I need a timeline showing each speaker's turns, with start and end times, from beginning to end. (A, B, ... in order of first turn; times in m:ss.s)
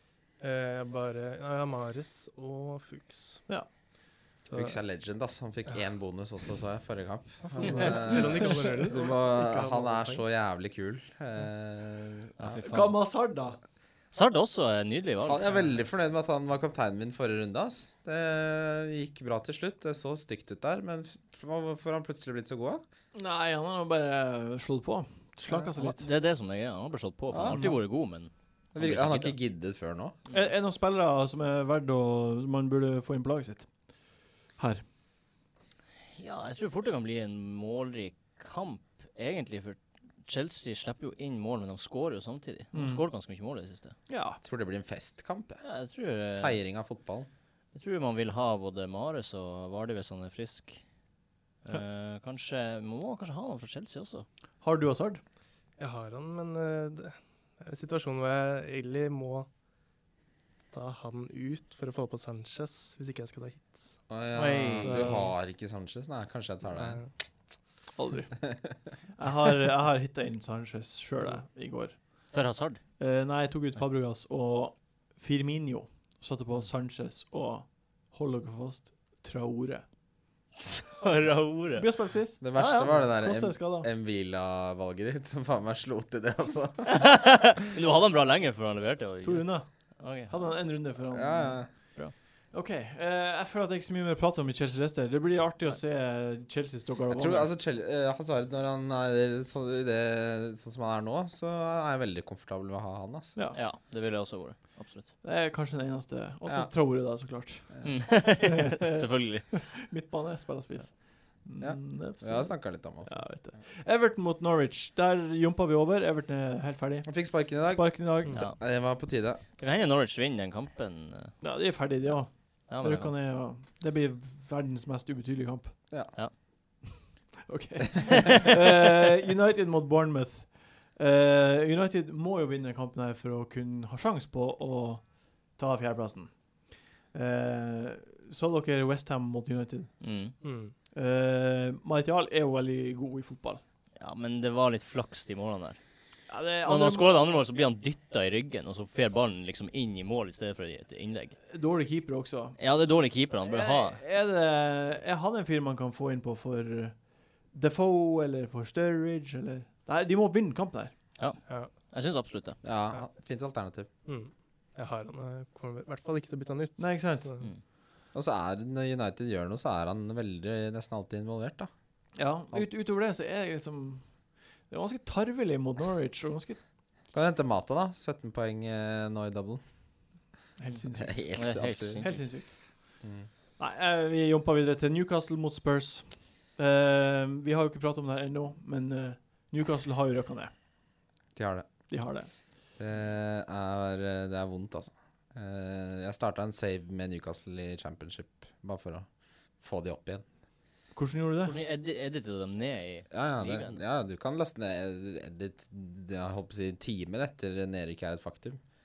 0:00.4-0:03.5 A
0:04.4-0:04.8 A
0:04.5-0:12.6 B
0:07.5-0:10.2 A
0:07.6-0:09.0 C
0:12.4-0:13.0 D
0:12.6-0:13.6 C
0:14.1-0:15.6 D
0:15.2-0:22.8 B
0:23.1-0:26.1 C
0:25.8-0:29.4 D
0:27.3-0:27.8 B
0:27.5-0:27.8 C
0:28.7-0:30.2 B
0:30.3-0:33.7 C
0:34.6-0:34.8 C
0:36.2-0:44.0 D
0:42.7-0:43.0 C
0:44.1-0:44.4 C
0:44.4-0:45.6 B
0:45.6-0:46.6 D
0:46.4-0:47.3 B
0:47.7-0:50.8 D
0:51.6-0:54.3 D
0:54.6-0:55.2 C
0:55.8-0:59.5 A
1:00.7-1:04.0 A
1:04.1-1:07.0 B
1:04.3-1:05.1 D
1:04.8-1:05.3 A
1:06.8-1:07.1 A
1:08.0-1:08.4 C
1:09.2-1:12.3 C
1:12.3-1:12.8 D
1:13.0-1:19.8 C
1:20.6-1:23.0 D
1:21.8-1:23.9 C
1:22.4-1:27.0 B
1:26.9-1:30.4 D
1:29.2-1:37.5 C
1:31.1-1:31.7 B
1:37.1-1:43.4 B
1:43.4-1:43.6 C
1:43.5-1:45.1 D
1:45.2-1:58.4 C
1:46.4-1:46.7 B
1:47.8-1:49.7 D
1:51.6-1:53.4 B
1:57.0-1:59.4 B
1:58.3-1:58.6 D
1:59.6-2:01.4 D
2:01.4-2:05.8 C
2:02.7-2:03.1 D
2:06.8-2:19.9 C
2:20.0-2:20.4 D
2:20.4-2:20.7 A
2:20.9-2:23.6 C
2:24.0-2:25.8 D
2:26.3-2:27.1 C
2:26.6-2:31.4 D
2:31.5-2:32.6 C
2:32.6-2:34.0 D
2:33.4-2:41.0 C
2:41.2-2:42.6 D
2:42.6-2:43.9 B
2:44.1-2:47.5 A
2:46.8-2:47.3 C
2:48.1-2:51.7 B
2:52.2-2:54.1 C
2:54.7-2:56.6 C
2:57.1-2:59.6 B
3:00.6-3:01.4 C
3:01.0-3:02.2 B
3:01.3-3:02.3 D
3:02.0-3:02.9 C
3:03.0-3:03.3 B
3:03.6-3:10.5 C
3:11.4-3:11.9 B
3:11.9-3:12.3 C
3:12.8-3:19.1 B
3:19.6-3:20.3 B
3:20.9-3:21.6 C
3:21.4-3:23.8 D
3:23.1-3:28.6 B